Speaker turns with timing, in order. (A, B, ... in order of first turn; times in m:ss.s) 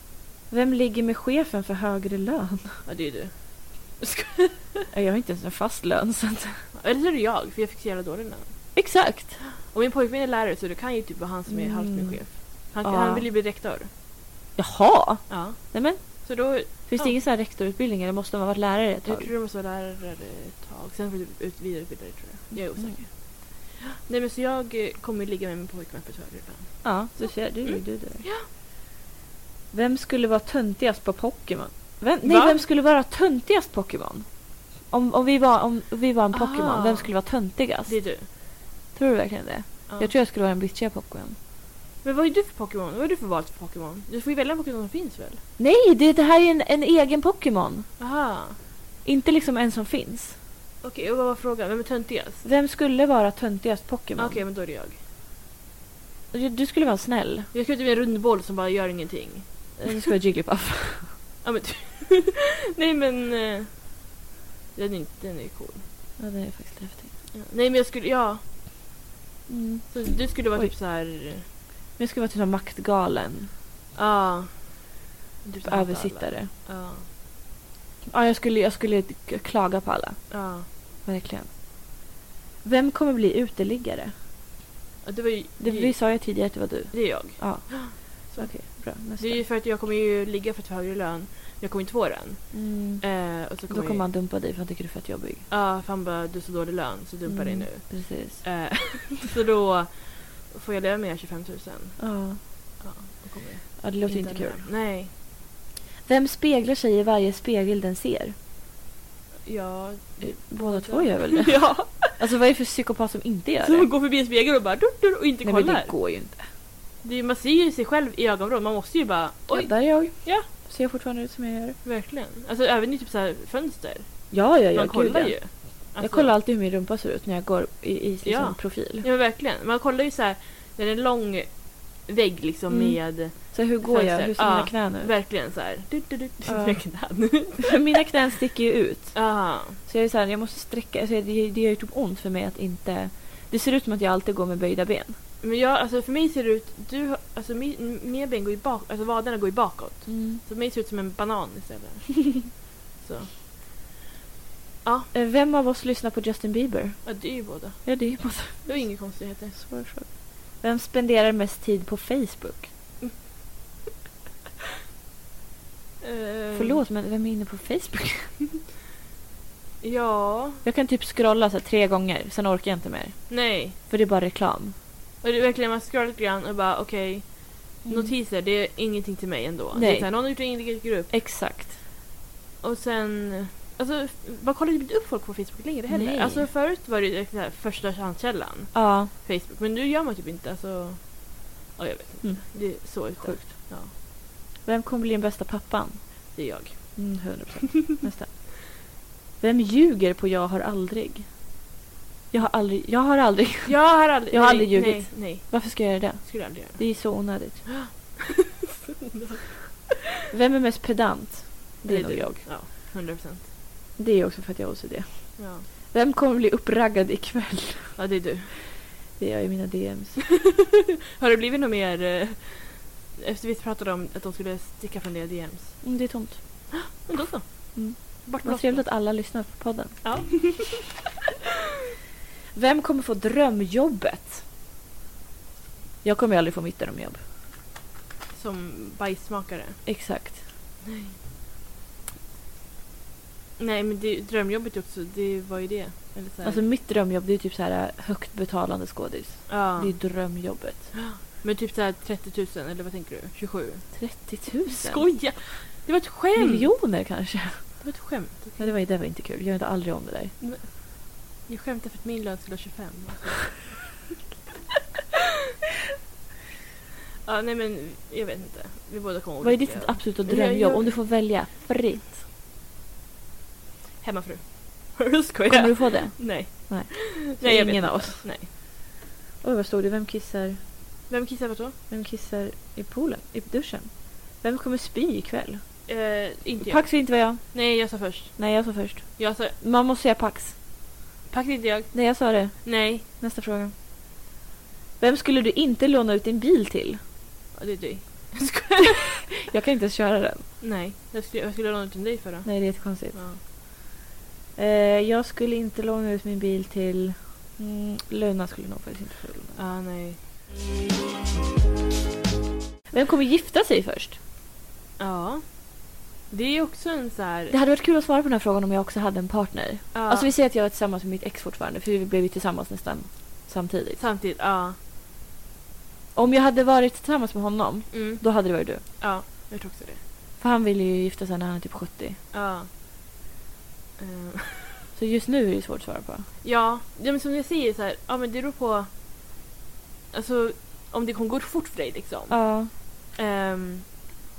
0:00.5-0:02.8 A
0:02.8-0:04.8 B
0:04.9-0:06.6 A
0:06.7-0:08.8 B
0:08.7-0:09.4 A
0:09.6-0:13.9 B
0:11.5-0:13.3 A
0:14.6-0:19.3 A
0:15.3-0:17.2 B
0:19.0-0:28.5 B
0:22.6-0:23.0 A
0:26.8-0:28.2 A
0:29.7-0:38.4 A
0:32.2-0:32.6 B
0:36.3-0:37.2 B
0:37.8-0:38.3 B
0:38.9-0:41.4 A
0:42.0-0:45.4 B
0:45.6-0:47.9 A
0:48.0-0:48.6 B
0:49.0-0:50.4 A
0:50.8-0:52.4 B
0:52.4-0:54.4 A
0:54.2-0:55.0 B
0:56.3-0:57.5 A
0:57.5-1:00.0 B
0:59.8-1:01.1 A
1:01.4-1:04.0 B
1:04.7-1:05.8 B
1:06.2-1:07.1 A
1:07.3-1:08.4 B
1:09.5-1:10.7 A
1:09.9-1:11.4 B
1:12.0-1:13.5 A
1:13.9-1:17.0 B
1:15.6-1:16.5 A
1:18.1-1:20.4 A
1:20.3-1:20.7 B
1:21.0-1:21.5 A
1:22.6-1:24.1 A
1:25.0-1:34.0 B
1:25.6-1:29.4 A
1:32.5-1:35.5 A
1:35.5-1:42.1 B
1:37.2-1:38.5 A
1:42.0-1:42.4 A
1:42.8-1:45.1 B
1:43.8-1:44.7 A
1:46.0-1:48.3 A
1:49.4-1:52.2 B
1:50.2-1:53.9 A
1:53.6-1:55.9 B
1:55.4-1:56.4 A
1:57.0-2:00.5 B
1:59.5-2:01.8 A
2:01.8-2:06.3 B
2:04.3-2:09.0 A
2:08.2-2:17.8 B
2:12.7-2:15.2 A
2:16.5-2:25.2 A
2:19.1-2:19.8 B
2:25.4-2:33.4 B
2:30.1-2:30.4 A
2:34.8-2:35.1 B
2:35.1-2:37.2 A
2:37.0-2:39.6 B
2:37.8-2:42.7 A
2:46.0-2:46.8 B
2:46.5-2:48.4 A
2:49.8-2:50.6 B
2:50.6-2:54.7 A
2:53.3-2:53.8 B
2:55.2-3:01.1 B
2:57.8-2:58.1 A
2:59.7-3:00.4 A
3:01.1-3:01.8 A
3:02.6-3:13.9 B
3:05.9-3:06.5 A
3:08.7-3:09.1 A
3:12.2-3:13.7 A
3:14.6-3:16.3 A
3:16.3-3:17.3 B
3:16.9-3:18.5 A
3:19.4-3:21.3 A
3:22.3-3:27.7 A
3:23.6-3:28.5 B
3:29.0-3:29.5 B
3:30.3-3:32.5 A
3:31.8-3:33.5 B
3:34.0-3:38.0 A
3:35.4-3:35.6 B
3:38.0-3:38.5 B
3:39.2-3:40.2 A
3:41.2-3:46.0 B
3:45.8-3:46.4 A
3:46.7-3:48.8 B
3:47.7-3:50.5 A
3:50.0-3:51.0 B
3:52.5-3:54.4 A
3:56.0-3:57.2 A
3:58.3-3:59.8 B
3:59.8-4:00.4 A
4:00.8-4:01.1 B
4:03.6-4:06.6 B
4:06.4-4:11.0 A
4:09.5-4:10.4 B
4:10.9-4:14.0 B
4:13.9-4:15.1 A
4:14.7-4:16.7 B
4:16.4-4:17.9 A
4:17.8-4:18.7 B
4:18.6-4:20.4 A
4:20.4-4:23.8 B
4:27.2-4:31.0 B
4:29.4-4:32.2 A
4:34.0-4:38.5 B
4:35.5-4:38.3 A
4:39.4-4:40.6 A
4:41.1-4:41.8 B
4:41.9-4:45.6 A
4:45.9-4:49.5 B
4:46.6-4:50.6 A
4:51.3-4:53.0 B
4:51.9-4:53.7 A
4:55.0-4:57.0 A
4:57.5-4:59.0 B
4:59.4-5:00.5 A
5:00.6-5:03.4 B
5:02.4-5:03.3 A
5:04.6-5:09.6 A
5:09.5-5:10.2 B
5:12.9-5:14.2 A
5:15.0-5:17.5 B
5:17.5-5:24.0 A
5:19.9-5:20.3 B
5:24.0-5:24.8 B
5:26.1-5:28.8 A
5:27.9-5:30.0 B
5:30.4-5:32.2 A
5:32.3-5:32.7 B
5:34.0-5:34.8 B
5:34.9-5:36.3 A
5:36.4-5:38.9 B
5:40.1-5:43.9 B
5:42.3-5:42.7 A